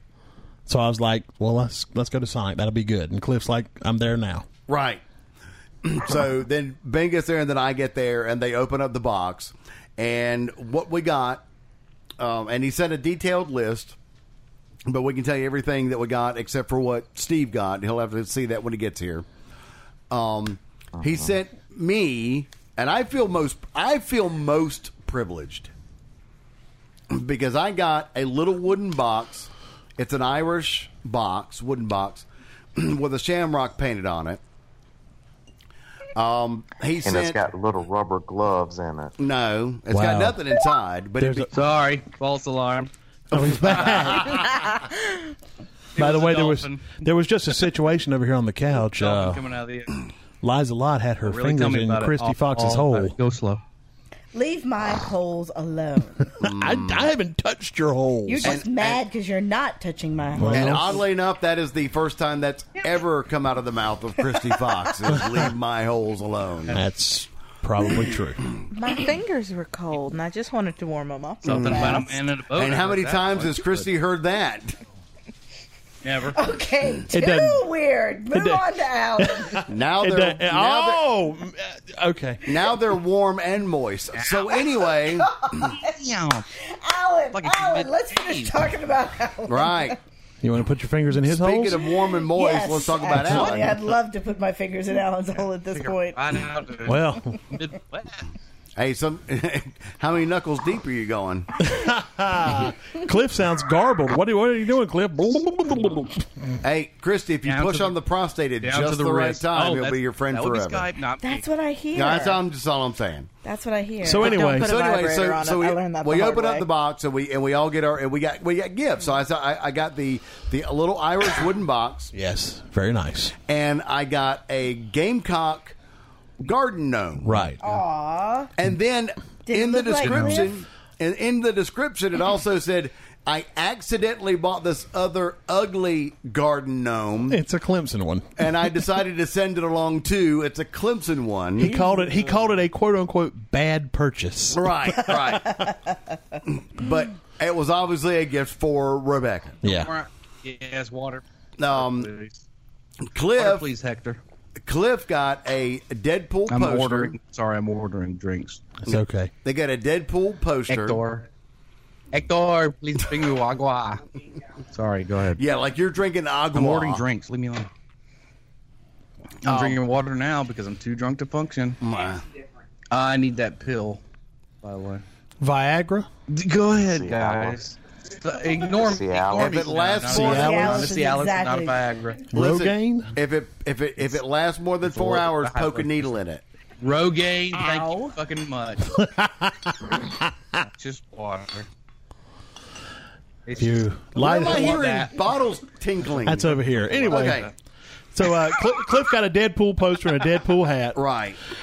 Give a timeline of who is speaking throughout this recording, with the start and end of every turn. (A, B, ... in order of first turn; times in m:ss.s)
0:00.6-0:04.5 A
0:04.7-0:05.0 B
0:05.8-0:11.4 B
0:12.2-0:14.0 B
0:14.9-0:19.2 B
0:20.1-0:25.7 B
0:27.1-0:34.4 B
0:36.1-0:37.4 B
0:37.0-0:39.2 C
0:39.2-0:41.5 B
0:39.9-0:40.4 A
0:41.2-0:41.5 A
0:41.5-0:42.9 D
0:43.3-0:44.4 A
0:43.5-0:43.9 B
0:43.6-0:44.5 D
0:45.9-0:47.0 D
0:46.0-0:49.4 A
0:48.9-0:50.0 D
0:50.4-0:53.1 A
0:51.2-0:53.6 D
0:54.3-0:56.3 E
0:56.4-0:57.1 B
0:56.4-0:58.6 A
0:58.2-1:01.0 E
0:58.4-0:59.0 B
1:00.4-1:01.0 A
1:00.5-1:06.8 B
1:06.7-1:08.4 A
1:08.7-1:09.0 E
1:08.7-1:12.1 F
1:11.4-1:13.9 D
1:11.4-1:14.8 B
1:11.7-1:12.0 E
1:16.0-1:16.4 D
1:16.3-1:19.6 E
1:17.1-1:17.6 A
1:18.3-1:18.6 A
1:19.2-1:22.5 A
1:19.7-1:21.0 B
1:22.4-1:25.4 B
1:24.1-1:24.8 D
1:25.1-1:26.0 E
1:25.8-1:26.5 D
1:26.6-1:30.0 E
1:27.3-1:28.7 D
1:29.5-1:30.0 B
1:30.4-1:31.9 A
1:31.2-1:33.7 B
1:32.0-1:36.3 E
1:33.1-1:33.6 A
1:35.7-1:38.3 D
1:36.8-1:37.4 A
1:38.8-1:41.5 B
1:41.6-1:46.2 A
1:46.6-1:50.9 B
1:47.4-1:48.0 D
1:48.6-1:51.5 D
1:51.2-1:52.4 E
1:51.9-1:53.3 B
1:53.4-1:54.4 E
1:54.0-1:54.7 A
1:54.2-1:56.7 F
1:54.5-2:02.1 B
2:02.1-2:03.3 A
2:03.4-2:05.8 B
2:06.4-2:07.5 B
2:07.2-2:07.6 A
2:07.6-2:08.5 E
2:08.6-2:17.4 B
2:09.4-2:10.6 E
2:10.0-2:10.4 D
2:17.3-2:18.5 A
2:18.4-2:21.7 B
2:21.6-2:25.5 A
2:24.5-2:25.7 B
2:26.5-2:29.6 B
2:29.6-2:29.9 A
2:29.6-2:32.4 D
2:31.6-2:32.1 B
2:33.0-2:33.7 B
2:33.4-2:34.2 D
2:34.6-2:37.2 B
2:36.5-2:38.7 D
2:38.8-2:39.3 A
2:38.9-2:41.0 B
2:40.7-2:41.3 D
2:42.1-2:44.0 D
2:44.7-2:45.4 D
2:45.4-2:47.0 B
2:46.5-2:47.7 D
2:49.4-2:51.8 D
2:49.4-2:49.8 B
2:51.8-2:52.2 B
2:52.9-2:54.0 D
2:54.6-2:55.0 D
2:55.4-2:56.1 A
2:56.3-3:02.3 D
2:56.8-2:57.7 C
2:58.8-2:59.7 C
2:59.4-3:00.8 B
3:00.1-3:00.9 A
3:00.2-3:01.8 E
3:02.3-3:03.1 A
3:02.3-3:06.4 B
3:04.8-3:06.1 D
3:06.8-3:08.9 D
3:07.6-3:08.1 E
3:08.9-3:10.6 A
3:10.6-3:11.7 D
3:13.4-3:15.3 D
3:13.6-3:14.8 A
3:14.2-3:17.5 B
3:16.2-3:17.5 D
3:16.2-3:17.5 A
3:18.1-3:21.0 A
3:20.9-3:21.4 B